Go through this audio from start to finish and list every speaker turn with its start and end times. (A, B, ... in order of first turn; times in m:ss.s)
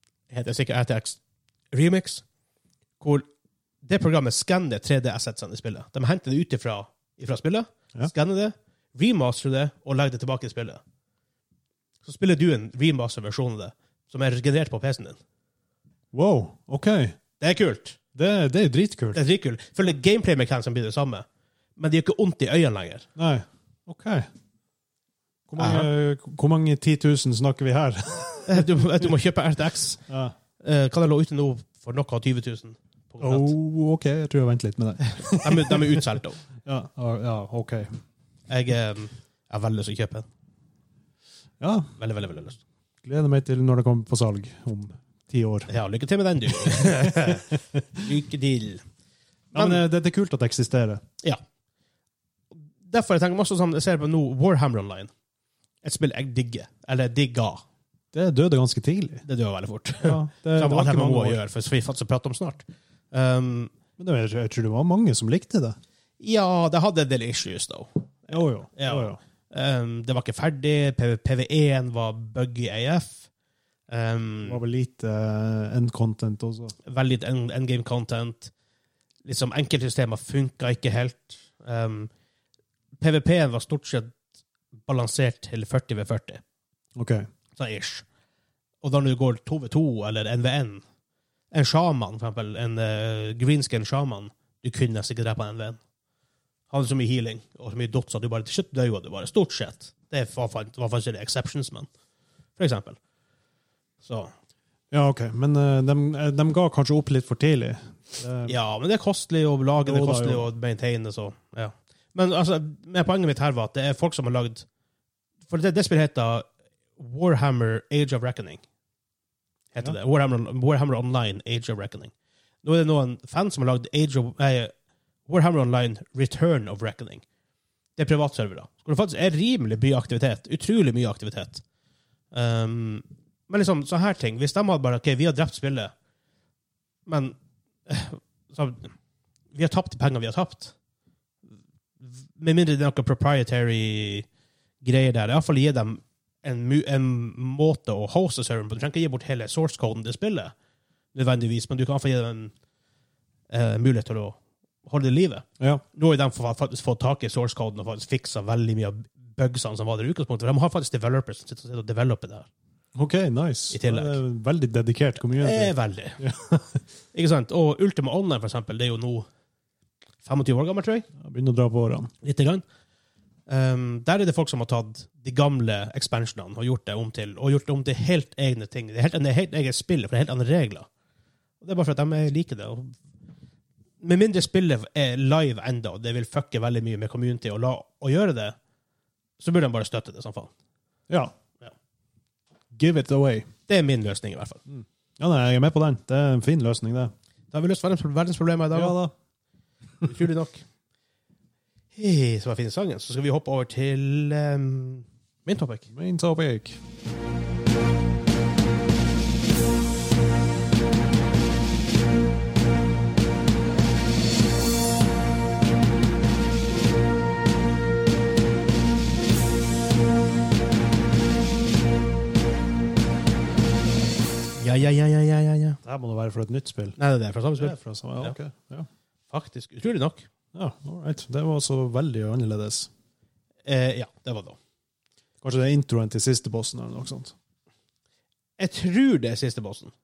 0:00.3-0:01.2 A
0:01.7-0:02.2 A
0:03.0-0:03.2 A
0:03.8-0:10.8 A
0:12.0-0:15.2 A
0:16.1-0:17.2 B
0:17.4-0:18.0 A
0:18.1-0:19.2 B
0:19.1-0:21.2 A
0:21.8-0:23.0 A
0:23.2-0:24.3 B
0:25.5-0:29.1 B
0:25.6-0:25.9 A
0:28.5-0:30.0 A
0:30.1-0:30.3 B
0:30.6-0:33.5 A
0:33.2-0:36.0 B
0:35.2-0:36.4 A
0:36.6-0:37.9 B
0:38.5-0:40.2 A
0:41.6-0:41.9 B
0:42.0-0:42.6 A
0:43.0-0:45.7 B
0:45.7-0:48.8 A
0:46.5-0:48.1 B
0:49.5-0:51.0 B
0:49.5-0:49.8 A
0:52.9-0:55.1 A
0:55.8-0:57.6 A
0:58.1-0:59.2 B
0:59.2-1:03.7 A
1:00.0-1:01.4 B
1:04.0-1:05.8 B
1:06.2-1:13.3 A
1:08.3-1:09.2 B
1:13.9-1:14.6 A
1:14.4-1:16.7 B
1:16.8-1:18.5 A
1:19.2-1:22.1 A
1:23.0-1:24.1 A
1:24.9-1:26.4 A
1:27.0-1:27.2 B
1:27.6-1:28.0 A
1:28.8-1:30.8 A
1:31.5-1:35.8 A
1:36.7-1:41.9 A
1:42.6-1:43.0 A
1:44.0-1:44.3 A
1:44.9-1:48.6 B
1:48.4-1:54.6 A
1:49.8-1:50.5 B
1:55.5-1:56.4 A
1:57.0-1:58.6 A
1:59.7-2:02.1 A
2:02.6-2:04.7 A
2:05.3-2:07.2 A
2:08.0-2:11.6 A
2:12.3-2:15.9 A
2:17.0-2:17.4 A
2:17.9-2:18.9 A
2:19.5-2:20.7 A
2:22.0-2:24.3 A
2:24.8-2:30.5 A
2:31.1-2:32.5 A
2:33.5-2:42.5 A
2:42.9-2:46.8 B
2:43.7-2:44.2 A
2:45.4-2:46.2 A
2:47.1-2:49.3 A
2:50.2-2:51.0 A
2:51.2-2:52.1 B
2:52.2-2:52.6 A
2:53.5-3:00.9 A
3:01.6-3:02.9 A
3:04.0-3:08.6 A
3:09.4-3:10.5 A
3:12.7-3:13.5 B
3:13.7-3:14.6 A
3:14.7-3:17.1 B
3:17.5-3:19.0 A
3:18.7-3:19.1 B
3:20.0-3:20.6 A
3:21.9-3:25.8 A
3:25.9-3:26.8 B
3:44.6-3:45.8 A
3:45.8-3:47.0 B
3:47.0-3:48.4 A
3:47.6-3:48.9 B
3:49.3-3:50.3 A
3:50.5-3:52.9 B
3:53.6-3:54.6 A
3:55.4-3:57.3 B
3:58.6-3:59.9 A